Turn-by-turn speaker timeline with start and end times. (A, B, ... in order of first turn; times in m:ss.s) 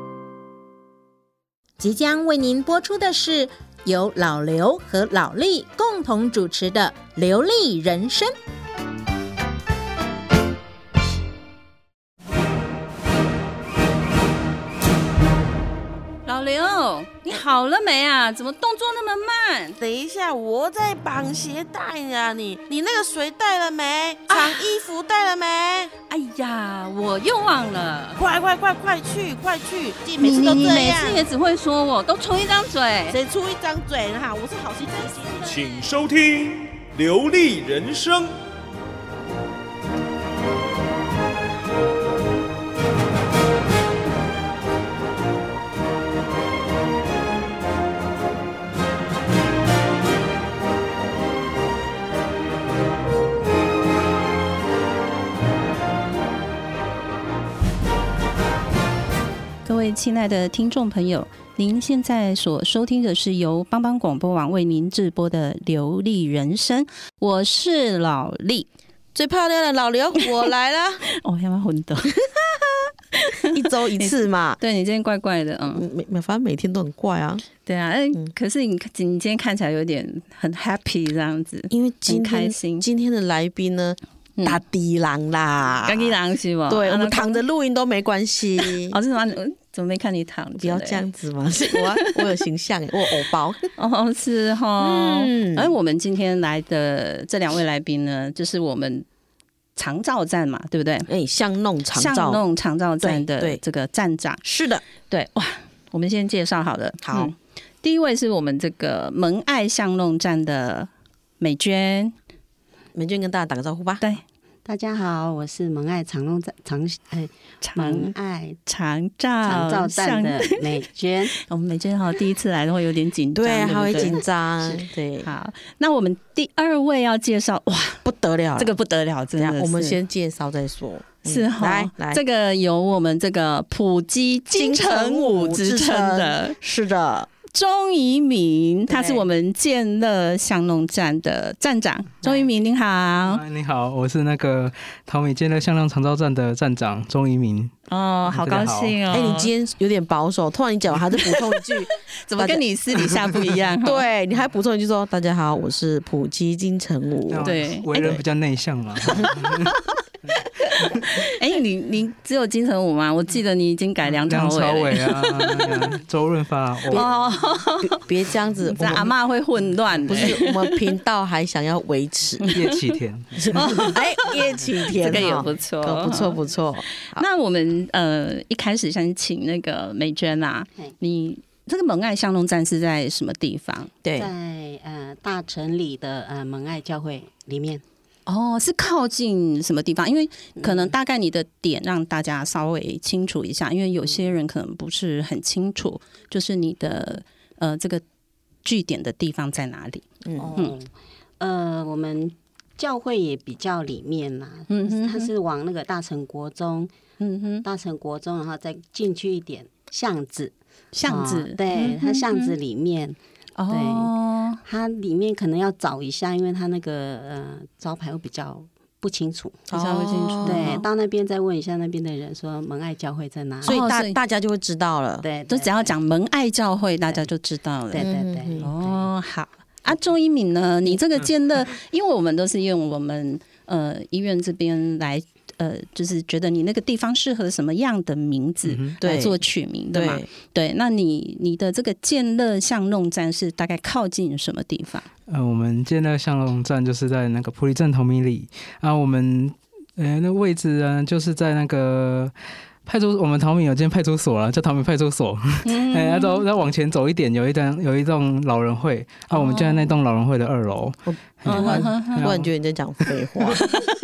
0:01.8-0:08.3 A
0:16.2-0:19.8 B
0:19.8-0:25.9 C
0:24.3-0:24.6 B
0:26.1-0:28.2 B
0:28.2-0:31.2 C
0:30.2-0:33.2 B
0:33.1-0:35.7 C
0:35.4-0:38.3 D
0:59.6-1:08.7 B
1:09.1-1:11.0 C
1:11.2-1:12.2 B
1:13.1-1:15.8 B
1:13.4-1:14.6 C
1:15.7-1:17.4 C
1:17.6-1:22.8 B
1:21.7-1:26.1 C
1:25.8-1:27.4 B
1:26.7-1:29.0 C
1:28.6-1:31.0 B
1:30.6-1:33.7 C
1:31.7-1:32.3 B
1:33.8-1:39.0 B
1:34.8-1:35.7 C
1:39.8-1:41.1 B
1:41.1-1:42.4 C
1:41.9-1:44.4 B
1:43.0-1:43.6 C
1:44.4-1:44.8 C
1:45.1-1:52.1 B
1:47.0-1:47.3 C
1:52.9-1:54.0 C
1:54.6-1:58.6 E
1:57.6-1:58.1 B
1:58.6-2:00.6 B
1:59.4-2:01.3 E
2:01.4-2:04.2 B
2:03.3-2:05.3 C
2:05.2-2:08.0 B
2:08.0-2:08.7 C
2:08.6-2:10.0 B
2:09.4-2:12.2 C
2:11.2-2:16.6 B
2:14.5-2:17.3 C
2:17.5-2:23.4 B
2:18.9-2:19.3 C
2:23.3-2:27.7 F
2:27.9-2:29.5 B
2:28.2-2:29.0 F
2:29.1-2:38.2 C
2:31.2-2:34.0 B
2:37.3-2:39.7 F
2:37.4-2:37.9 B
2:39.0-2:39.3 C
2:40.2-2:41.1 F
2:41.2-2:45.9 B
2:44.3-2:47.0 F
2:46.9-2:48.0 B
2:47.8-2:49.1 C
2:48.6-2:50.8 B
2:50.1-2:52.5 C
2:52.4-2:52.7 B
2:52.5-2:53.6 F
2:53.3-2:57.2 C
2:53.5-2:54.3 B
2:55.0-2:56.3 B
2:57.1-3:03.9 B
3:04.0-3:04.3 C
3:04.2-3:07.8 E
3:08.2-3:18.0 B
3:10.6-3:10.9 E
3:18.6-3:20.0 B
3:20.2-3:20.5 C
3:20.4-3:26.9 E
3:24.7-3:25.3 B
3:27.2-3:27.6 B
3:27.6-3:30.5 E
3:30.9-3:32.5 B
3:31.0-3:33.2 E
3:33.6-3:34.6 B
3:33.7-3:34.1 E
3:34.6-3:39.7 E
3:39.7-3:40.8 C
3:39.7-3:40.8 B
3:40.4-3:43.8 E
3:43.6-3:45.2 C
3:43.6-3:44.2 B
3:45.2-3:45.9 E
3:45.5-3:48.0 B
3:47.9-3:49.0 E
3:48.0-3:48.7 C
3:48.6-4:05.1 B
3:58.6-3:58.9 F
3:59.0-3:59.4 C
3:59.9-4:00.3 C
4:05.3-4:12.3 F
4:12.8-4:22.5 F
4:15.6-4:16.4 B
4:19.3-4:19.9 B
4:21.0-4:23.6 C
4:21.4-4:22.3 B